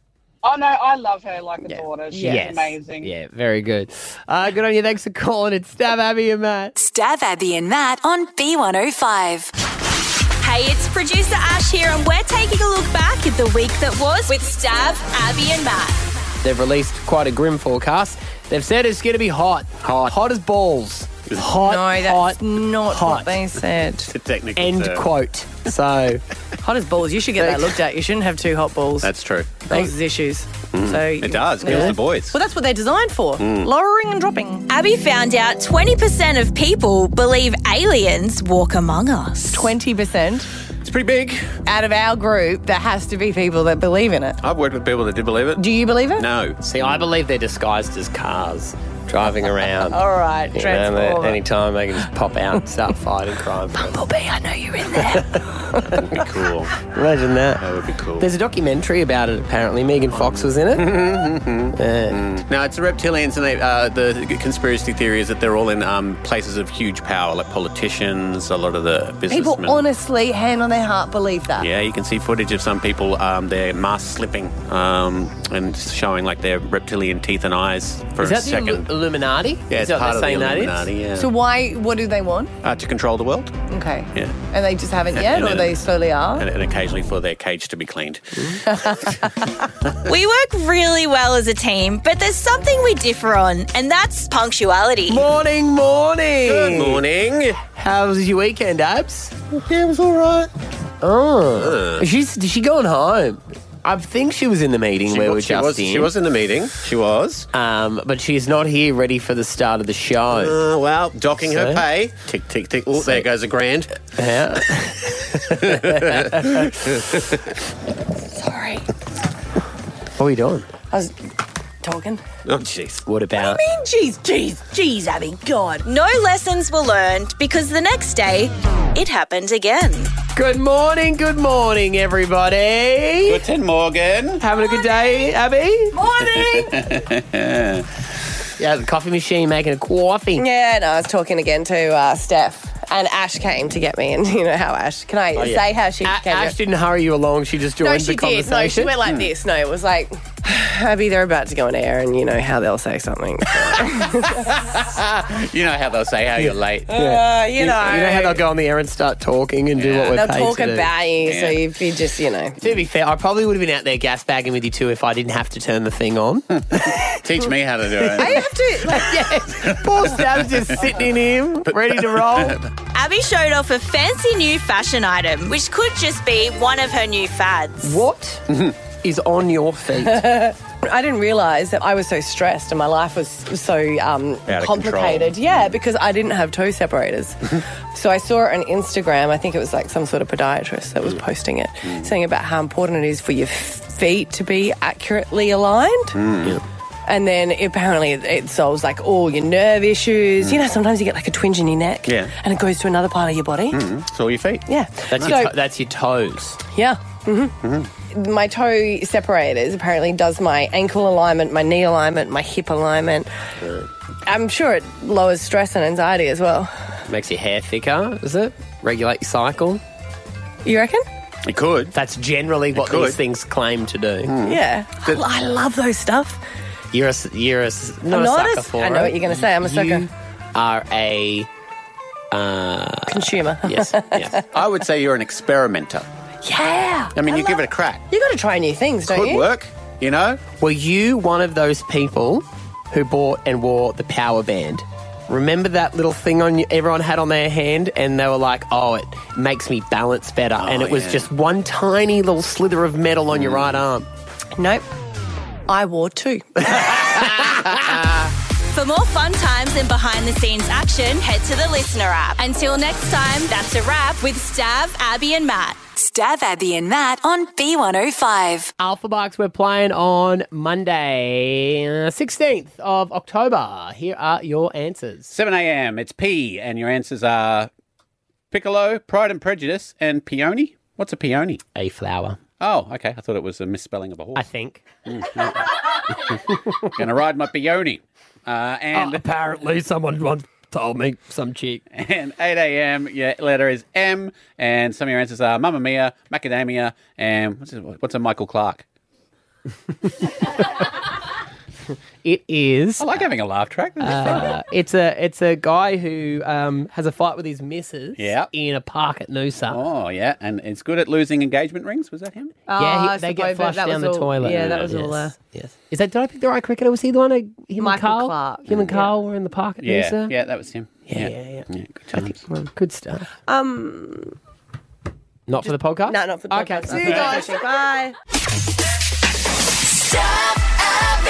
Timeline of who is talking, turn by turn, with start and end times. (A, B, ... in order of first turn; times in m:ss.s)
0:00.4-0:03.1 A
0:01.6-0:02.6 B
0:02.1-0:06.8 C
0:06.8-0:09.5 D
0:10.4-0:16.0 E
0:16.4-0:23.6 C
0:19.8-0:20.2 F
0:21.6-0:24.1 B
0:24.1-0:25.1 F
0:24.6-0:26.2 C
0:26.6-0:29.1 B
0:29.0-0:29.7 F
0:29.7-0:34.7 B
0:30.7-0:32.4 F
0:33.4-0:33.7 F
0:34.7-0:39.7 E
0:39.5-0:40.5 B
0:40.8-0:41.6 F
0:41.7-0:44.4 B
0:44.4-0:47.1 F
0:45.6-0:46.3 B
0:46.6-0:54.0 C
0:49.8-0:51.4 B
0:53.8-0:56.1 B
0:55.1-0:56.2 C
0:56.1-0:56.7 F
0:56.9-0:57.7 C
0:57.6-0:58.3 F
0:58.2-1:01.0 C
1:00.1-1:09.8 F
1:01.7-1:02.3 C
1:09.3-1:11.7 B
1:11.6-1:18.9 F
1:18.2-1:20.9 C
1:19.7-1:21.3 F
1:21.1-1:22.5 B
1:22.6-1:24.4 F
1:23.7-1:26.5 B
1:25.1-1:29.1 F
1:28.8-1:29.2 B
1:30.0-1:35.3 E
1:35.1-1:37.0 C
1:36.4-1:37.6 F
1:37.7-1:39.4 C
1:39.5-1:40.5 F
1:41.0-1:46.1 C
1:41.6-1:42.1 F
1:45.1-1:47.5 F
1:47.5-1:50.6 C
1:50.3-1:54.8 F
1:51.4-1:51.8 C
1:52.9-1:53.3 C
1:54.2-1:56.7 C
1:55.3-1:57.3 F
1:58.2-1:58.9 B
2:00.2-2:00.7 C
2:00.9-2:01.2 B
2:01.8-2:02.2 B
2:02.4-2:03.0 F
2:03.0-2:03.6 C
2:03.3-2:05.9 B
2:05.8-2:10.1 E
2:10.4-2:13.4 C
2:13.2-2:14.4 F
2:14.4-2:16.2 C
2:16.0-2:16.7 B
2:16.2-2:18.0 F
2:18.6-2:20.4 C
2:20.4-2:26.6 B
2:25.4-2:28.9 C
2:27.8-2:34.6 B
2:34.5-2:37.0 F
2:36.9-2:38.4 B
2:36.9-2:40.9 C
2:39.8-2:40.5 F
2:40.1-2:42.6 B
2:41.2-2:41.6 F
2:42.6-2:47.0 C
2:47.0-2:48.5 F
2:48.1-2:49.2 B
2:48.2-2:52.6 C
2:49.6-2:50.8 F
2:51.7-2:52.7 F
2:52.9-2:58.0 E
2:57.8-3:00.3 C
2:58.5-2:58.8 F
3:00.0-3:16.2 B
3:04.5-3:05.8 F
3:11.8-3:12.1 F
3:16.2-3:16.6 F
3:17.1-3:23.8 B
3:20.4-3:20.7 F
3:22.0-3:22.3 F
3:23.7-3:25.4 F
3:24.7-3:25.5 B
3:25.1-3:26.6 C
3:26.7-3:27.6 B
3:27.6-3:27.9 F
3:28.1-3:33.3 B
3:34.3-3:36.7 B
3:37.1-3:39.8 C
3:40.6-3:41.0 B
3:41.4-3:41.9 F
3:41.9-3:44.3 C
3:42.7-3:43.2 F
3:44.2-3:45.2 F
3:44.4-3:46.4 B
3:46.9-3:51.5 C
3:48.0-3:50.1 B
3:52.3-3:54.4 C
3:53.1-3:54.5 B
3:54.5-3:56.1 F
3:56.4-3:59.5 B
3:57.1-3:58.1 F
3:59.1-4:00.4 F
4:00.6-4:14.1 C
4:10.6-4:11.3 F
4:13.3-4:13.8 F
4:14.6-4:14.8 B
4:15.7-4:17.5 B
4:16.8-4:17.3 C
4:18.7-4:25.9 E
4:26.0-4:28.7 D
4:28.8-4:35.3 C
4:35.3-4:37.7 F
4:38.5-4:41.6 F
4:41.8-4:42.4 C
4:42.6-4:44.5 F
4:44.4-4:44.8 C
4:45.1-4:49.2 F
4:46.5-4:46.9 C
4:48.9-4:51.8 C
4:51.9-4:58.8 F
5:02.2-5:03.2 C
5:03.0-5:04.6 F
5:04.0-5:09.8 C
5:08.2-5:08.5 F
5:09.7-5:12.6 F
5:12.7-5:15.4 B
5:12.7-5:20.3 C
5:14.5-5:14.9 F
5:17.8-5:19.1 B
5:19.8-5:22.4 F
5:21.1-5:22.2 C
5:22.8-5:23.3 C
5:23.4-5:24.4 B
5:25.5-5:27.4 C
5:25.6-5:28.2 B